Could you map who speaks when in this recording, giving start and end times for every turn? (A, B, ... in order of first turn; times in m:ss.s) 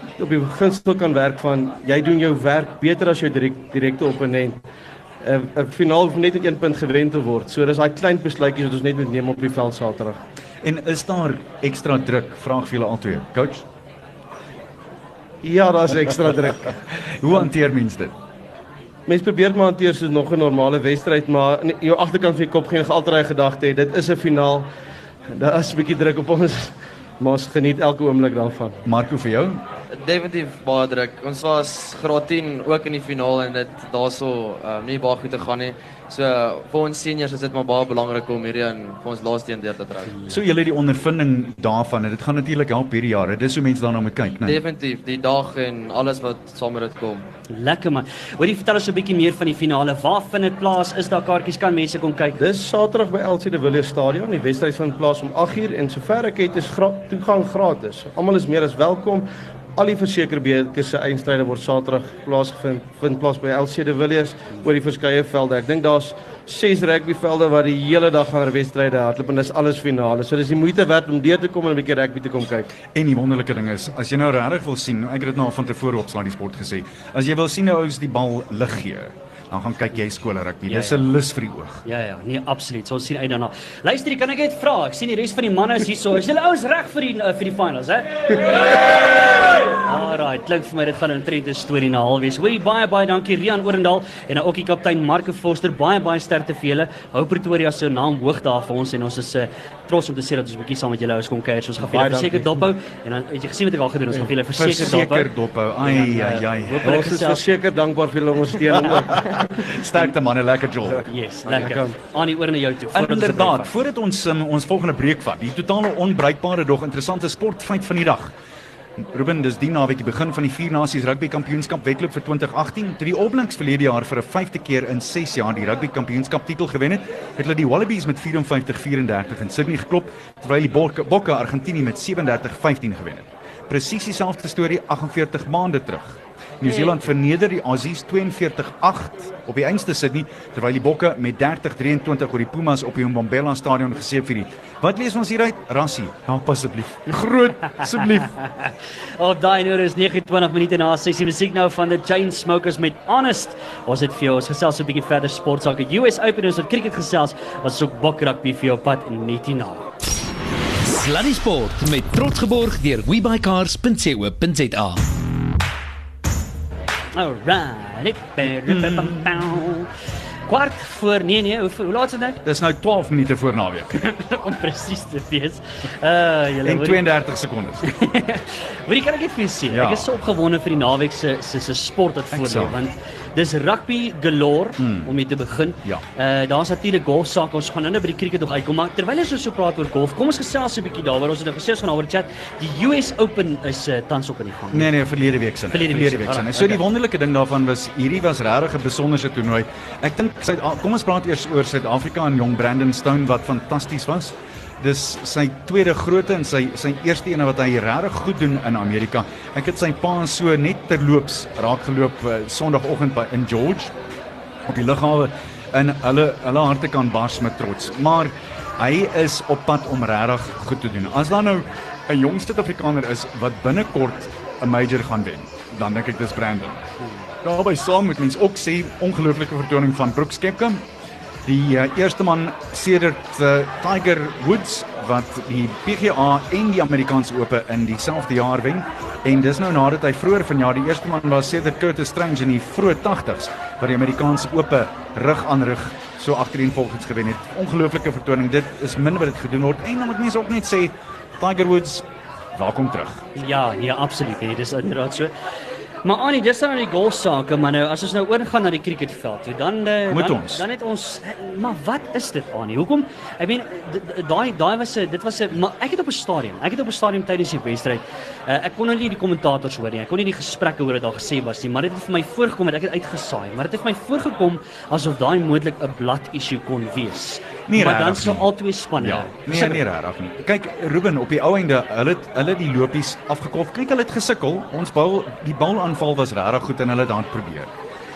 0:00.2-0:04.6 A
0:05.2-0:10.2 A
0:10.6-0:13.6 B
0:15.4-0:16.7 A
0:17.1-0:18.1 B
0:19.1-0:24.7 A
0:25.3-0:28.8 A
0:28.8-0:29.6 B
0:29.9-0:40.1 C
0:40.3-0:44.6 B
0:44.4-0:47.2 C
0:47.5-0:52.4 D
0:52.4-1:12.8 A
1:12.9-1:21.8 B
1:20.7-1:21.0 D
1:21.8-1:28.8 D
1:29.8-1:45.3 D
1:41.8-1:42.6 A
1:44.5-1:47.0 B
1:45.8-1:47.4 D
1:46.8-1:49.4 A
1:48.7-1:51.0 B
1:51.0-1:53.7 D
1:51.5-1:52.0 A
1:52.9-1:58.3 B
1:59.0-2:28.3 B
2:27.8-2:39.9 D
2:40.8-2:45.0 E
2:47.1-2:49.9 D
2:48.6-2:49.4 B
2:50.5-2:52.4 D
2:52.4-2:53.9 B
2:54.0-2:57.0 D
2:56.6-2:57.8 B
2:57.8-3:14.9 D
2:59.7-3:00.1 B
3:02.3-3:02.8 B
3:04.8-3:05.2 B
3:14.7-3:33.9 B
3:15.7-3:16.8 D
3:34.7-3:46.8 B
3:47.4-3:50.8 B
3:51.4-4:13.2 B
4:13.4-4:15.3 D
4:16.0-4:39.8 D
4:20.1-4:20.6 B
4:37.7-4:47.7 B